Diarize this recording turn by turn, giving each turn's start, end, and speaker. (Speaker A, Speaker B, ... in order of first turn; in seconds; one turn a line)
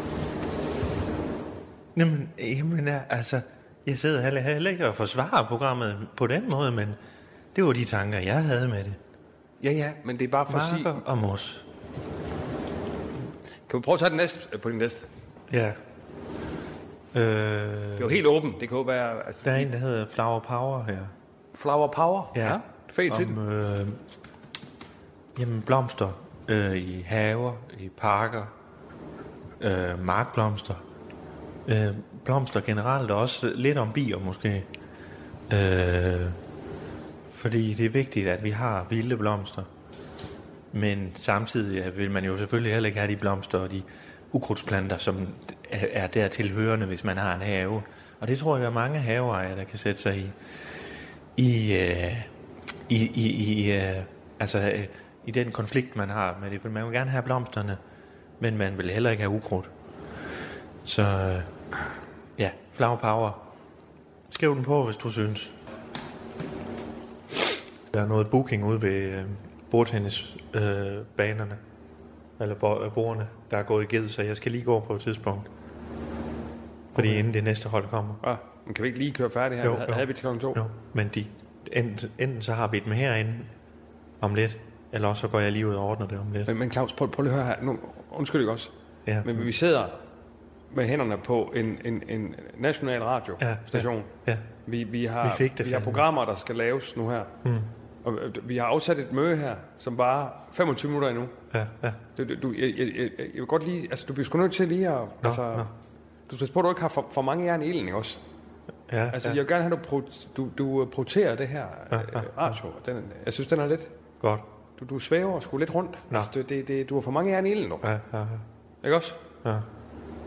Speaker A: 1.9-7.0
Speaker A: 7.5-9.0
Speaker B: 9.6-11.0
Speaker A: 10.5-11.6
Speaker B: 13.7-15.1
Speaker A: 15.5-15.8
Speaker A: 17.1-18.2
Speaker B: 18.0-19.7
Speaker A: 19.4-21.1
Speaker B: 21.5-23.4
Speaker A: 22.3-24.0
Speaker A: 25.4-28.5
Speaker A: 29.6-30.8
Speaker A: 31.6-34.7
Speaker A: 35.5-36.4
Speaker A: 37.3-39.7
Speaker A: 40.7-50.3
Speaker A: 51.4-52.3
Speaker A: 52.9-57.8
Speaker A: 58.4-59.7
Speaker A: 60.8-61.5
Speaker A: 62.4-63.4
Speaker A: 64.3-65.5
Speaker A: 67.9-71.6
Speaker A: 72.4-75.5
Speaker A: 76.9-78.2
Speaker B: 77.0-77.2
Speaker B: 78.2-80.6
Speaker A: 79.6-83.5
Speaker A: 84.2-86.5
Speaker B: 86.5-88.7
Speaker A: 89.0-89.5
Speaker B: 89.2-90.0
Speaker B: 90.7-94.1
Speaker A: 93.4-94.5
Speaker B: 94.7-97.3
Speaker A: 95.2-96.0
Speaker A: 97.4-97.7
Speaker B: 98.0-101.3
Speaker A: 101.5-102.0
Speaker B: 102.2-105.7
Speaker A: 105.2-105.7
Speaker B: 106.3-108.2
Speaker A: 108.9-109.4
Speaker B: 109.1-113.9
Speaker A: 111.9-112.5
Speaker A: 114.2-114.5
Speaker B: 114.8-117.9
Speaker A: 117.8-118.4
Speaker B: 118.8-119.2